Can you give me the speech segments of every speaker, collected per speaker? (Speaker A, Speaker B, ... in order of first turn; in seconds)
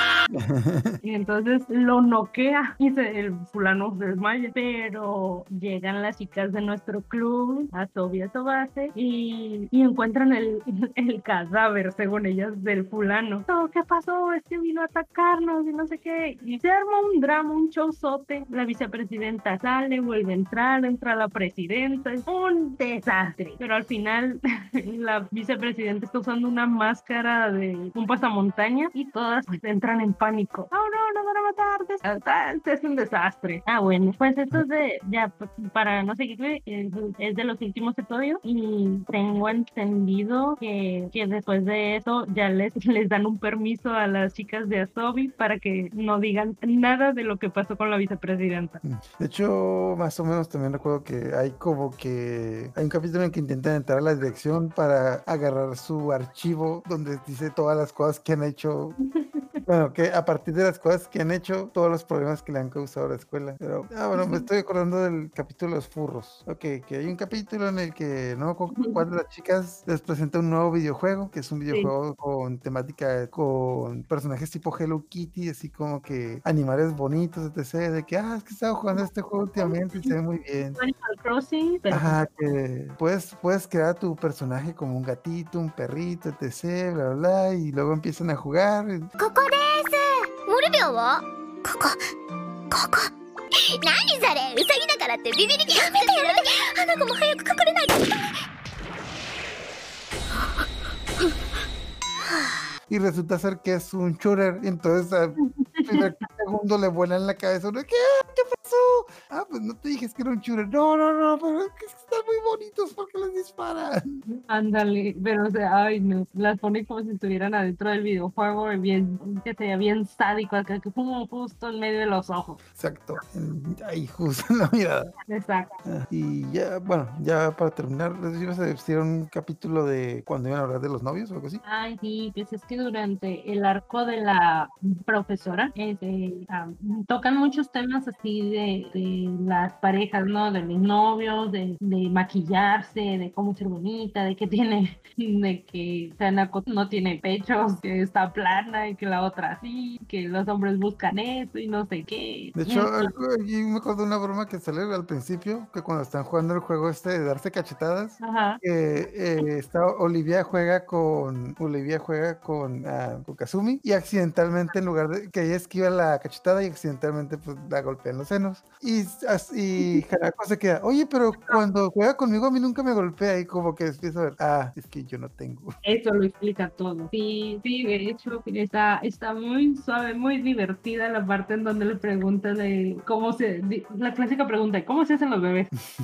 Speaker A: 0.3-1.0, 48.8-59.0, 59.6-80.8, 81.9-89.1, 102.9-114.2, 122.8-125.1, 125.8-131.6, 152.6-175.7
Speaker B: 1.0-48.8, 59.0-59.6, 64.1-64.4, 79.6-80.1, 80.7-82.2, 105.4-106.1, 114.3-122.6, 125.3-125.7, 131.6-153.1, 158.2-158.6, 175.8-185.7
Speaker C: 89.2-91.9, 92.7-93.1, 93.8-98.1